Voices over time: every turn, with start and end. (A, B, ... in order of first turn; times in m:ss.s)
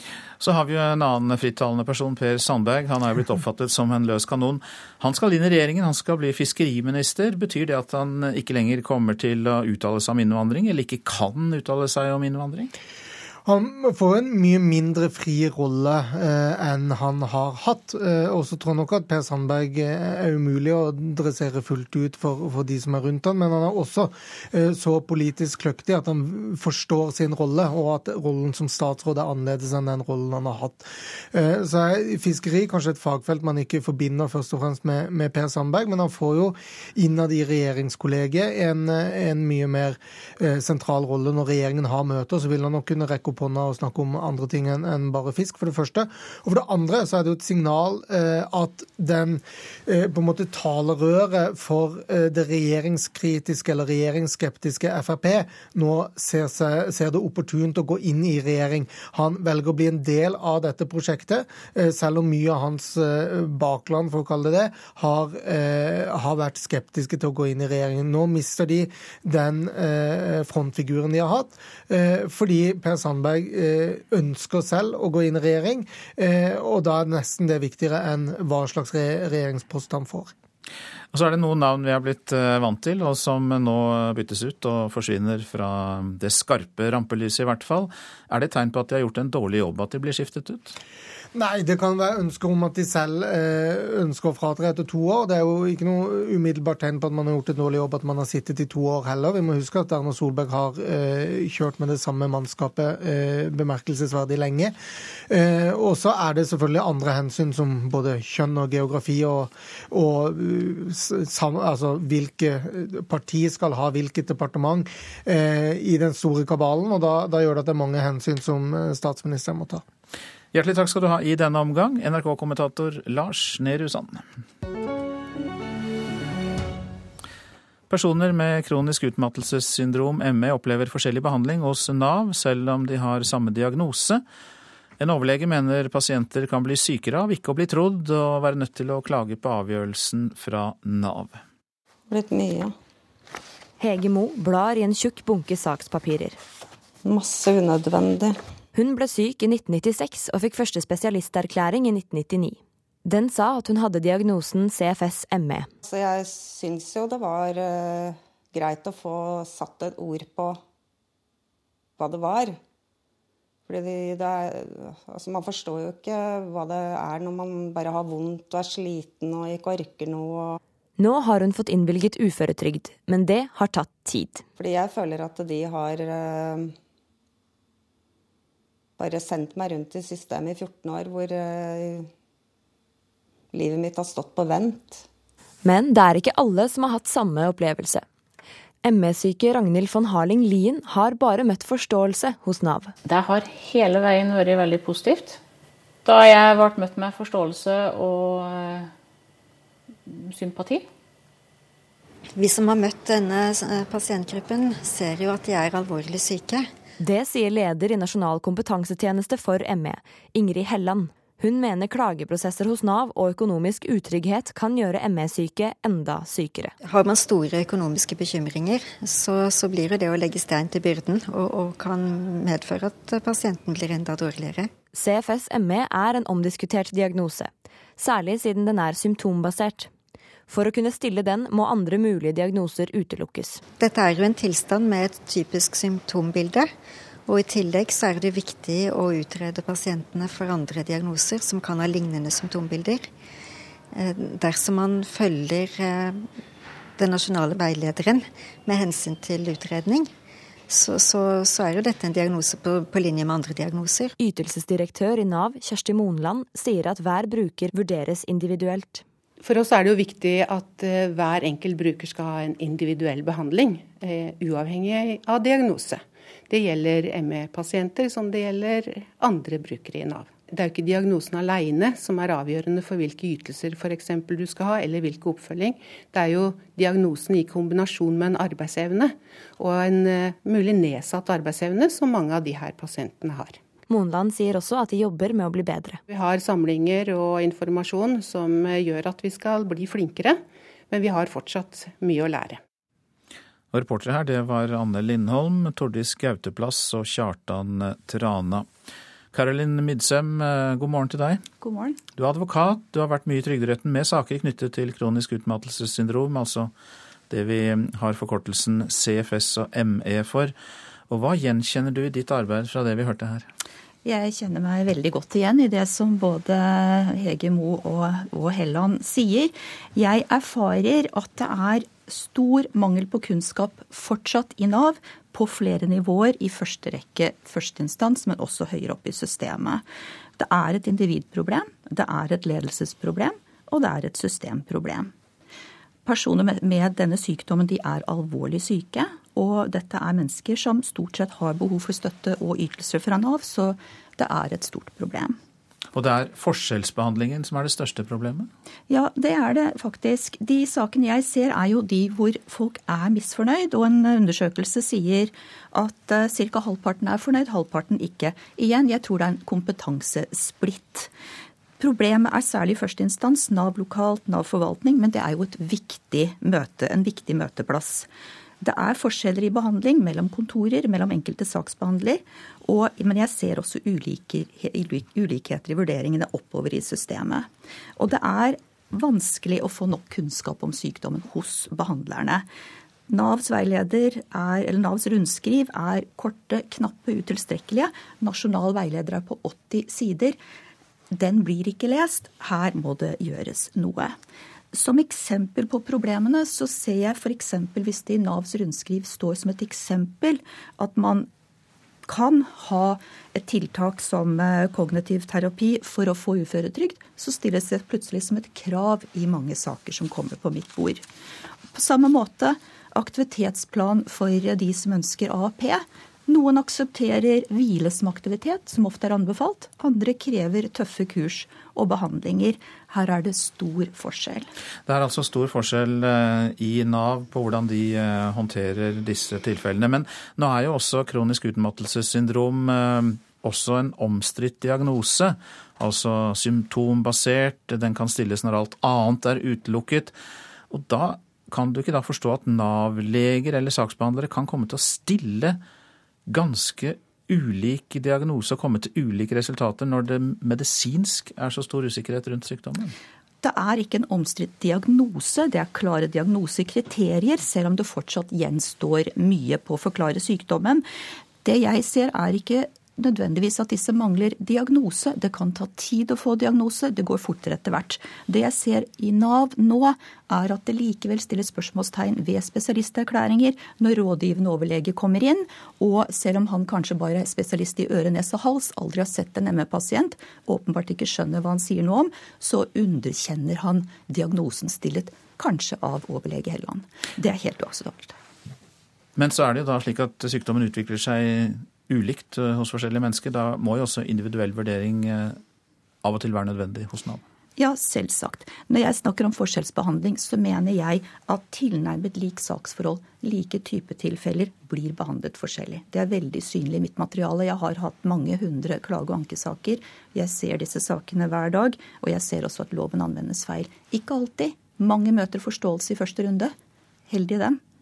0:00.4-0:12.7 A
0:13.4-1:20.3 B
1:21.1-1:30.7 A
1:31.3-1:44.7 B
1:45.3-1:59.8 B
2:00.5-2:04.3 A
2:07.9-2:14.2 A
2:15.0-2:21.4 A
2:22.1-2:22.7 C
2:23.8-2:26.4 D
2:27.0-2:28.4 C
2:28.7-2:35.7 D
2:35.8-2:40.6 C
2:42.0-2:42.6 C
2:43.7-2:50.6 C
2:51.0-2:54.4 D
2:54.6-2:56.7 C
2:59.0-3:02.1 C
3:03.5-3:05.0 C
3:05.6-3:08.0 D
3:08.8-3:12.9 D
3:13.0-3:15.4 E
3:16.0-3:18.9 E
3:20.1-3:20.9 E
3:22.3-3:26.7 F
3:27.0-3:36.7 D
3:36.8-3:44.7 F
3:44.9-3:49.9 D
3:50.5-3:53.6 D
3:53.8-3:56.7 F
3:57.2-4:03.1 F
4:03.9-4:06.3 F
4:07.0-4:10.1 F
4:10.7-4:14.1 F
4:14.2-4:19.0 D
4:19.4-4:43.6 G
4:43.9-4:46.0 D
4:46.1-4:52.6 G
4:53.7-4:58.7 A
4:59.3-5:01.4 A
5:01.6-5:02.0 H
5:02.2-5:06.7 A
5:07.3-5:10.5 A
5:11.1-5:13.5 A
5:14.0-5:29.8 H
5:30.4-5:35.1 H
5:36.0-5:45.4 H
5:45.9-5:48.5 A
5:48.9-6:01.1 H
6:01.8-6:08.1 H
6:08.6-6:22.5 H
6:23.1-6:30.4 H
6:31.1-6:34.2 H
6:34.7-6:41.3 H
6:42.1-6:51.0 H
6:51.7-7:04.5 H
7:04.8-7:20.1 A
7:20.7-7:25.6 A
7:26.3-7:32.9 A
7:33.4-7:40.8 H
7:41.4-8:08.2 H
8:09.2-8:15.4 A
8:16.0-8:17.2 A
8:17.6-8:36.5 H
8:37.1-8:37.6 H